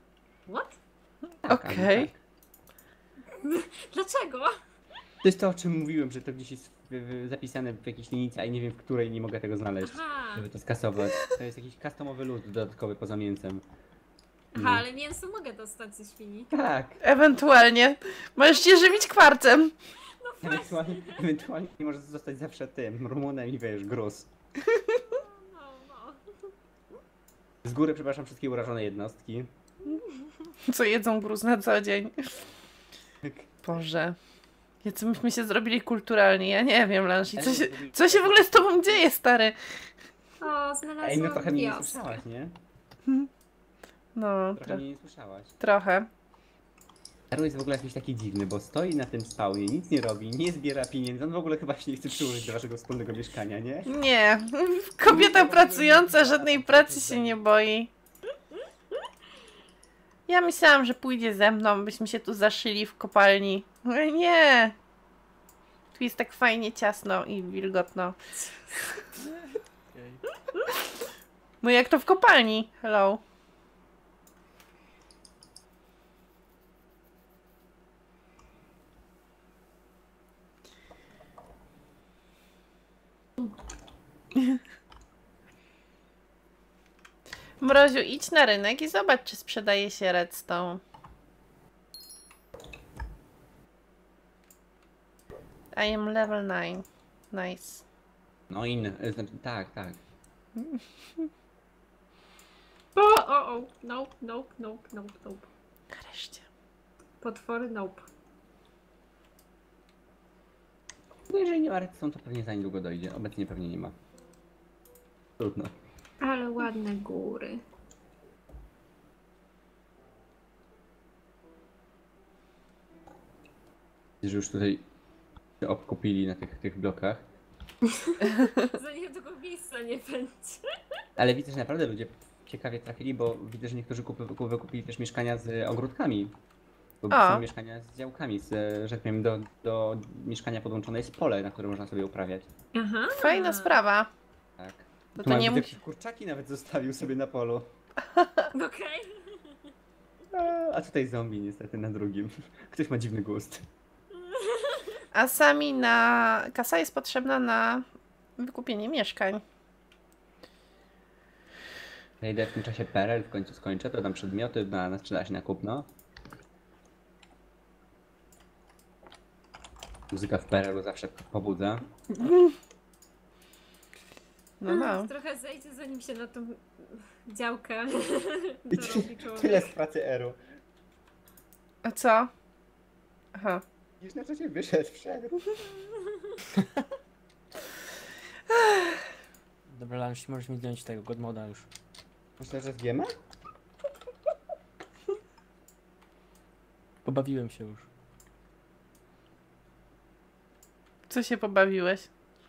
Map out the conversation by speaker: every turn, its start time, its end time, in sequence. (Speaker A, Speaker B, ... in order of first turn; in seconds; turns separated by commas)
Speaker A: 0.5-0.8, Speaker B: 1.4-2.2, Speaker C: 1.5-2.1, Speaker A: 3.3-4.6, Speaker B: 5.2-13.6, Speaker A: 9.8-10.5, Speaker A: 14.5-16.5, Speaker B: 14.6-14.8, Speaker B: 16.5-17.0, Speaker C: 17.0-19.7, Speaker A: 18.5-19.1, Speaker A: 20.2-21.3, Speaker B: 20.4-24.3, Speaker C: 24.8-25.0, Speaker A: 25.1-26.5, Speaker B: 27.6-29.5, Speaker C: 30.7-32.3, Speaker B: 33.2-33.6, Speaker C: 33.6-34.2, Speaker C: 34.8-39.6, Speaker B: 37.3-39.1, Speaker A: 40.4-42.2, Speaker B: 41.0-42.5, Speaker C: 44.2-44.8, Speaker B: 44.6-45.5, Speaker C: 45.6-46.1, Speaker B: 47.3-53.9, Speaker C: 53.9-57.9, Speaker D: 55.1-57.3, Speaker B: 55.1-57.3, Speaker C: 60.3-64.8, Speaker C: 66.0-68.2, Speaker A: 68.4-68.7, Speaker D: 69.9-70.2, Speaker C: 71.6-73.2, Speaker C: 87.6-90.8, Speaker C: 95.7-97.8, Speaker B: 98.5-100.0, Speaker C: 100.6-101.3, Speaker A: 103.0-105.5, Speaker C: 105.9-106.5, Speaker A: 107.2-108.1, Speaker B: 111.3-114.0, Speaker B: 115.4-115.7, Speaker A: 116.2-117.6, Speaker B: 124.2-124.9, Speaker B: 125.6-127.3, Speaker A: 127.8-130.6, Speaker C: 128.3-128.7, Speaker B: 131.2-136.3, Speaker B: 137.0-142.5, Speaker C: 137.1-137.4, Speaker A: 142.7-143.8, Speaker C: 143.1-144.1, Speaker B: 144.6-147.7, Speaker C: 145.2-145.8, Speaker C: 148.2-148.5, Speaker A: 148.5-149.6, Speaker B: 150.3-153.7, Speaker A: 154.2-155.0, Speaker C: 155.1-157.9, Speaker C: 158.4-159.4, Speaker B: 162.2-165.9, Speaker B: 170.1-171.8, Speaker C: 172.2-172.5, Speaker C: 174.6-175.1, Speaker A: 174.7-179.7, Speaker B: 178.7-180.4, Speaker C: 181.8-182.3, Speaker C: 183.3-183.6, Speaker B: 184.0-185.4, Speaker A: 185.8-186.4, Speaker C: 188.6-188.8, Speaker D: 189.7-191.7, Speaker B: 192.4-193.1, Speaker D: 197.0-197.9, Speaker C: 201.1-202.1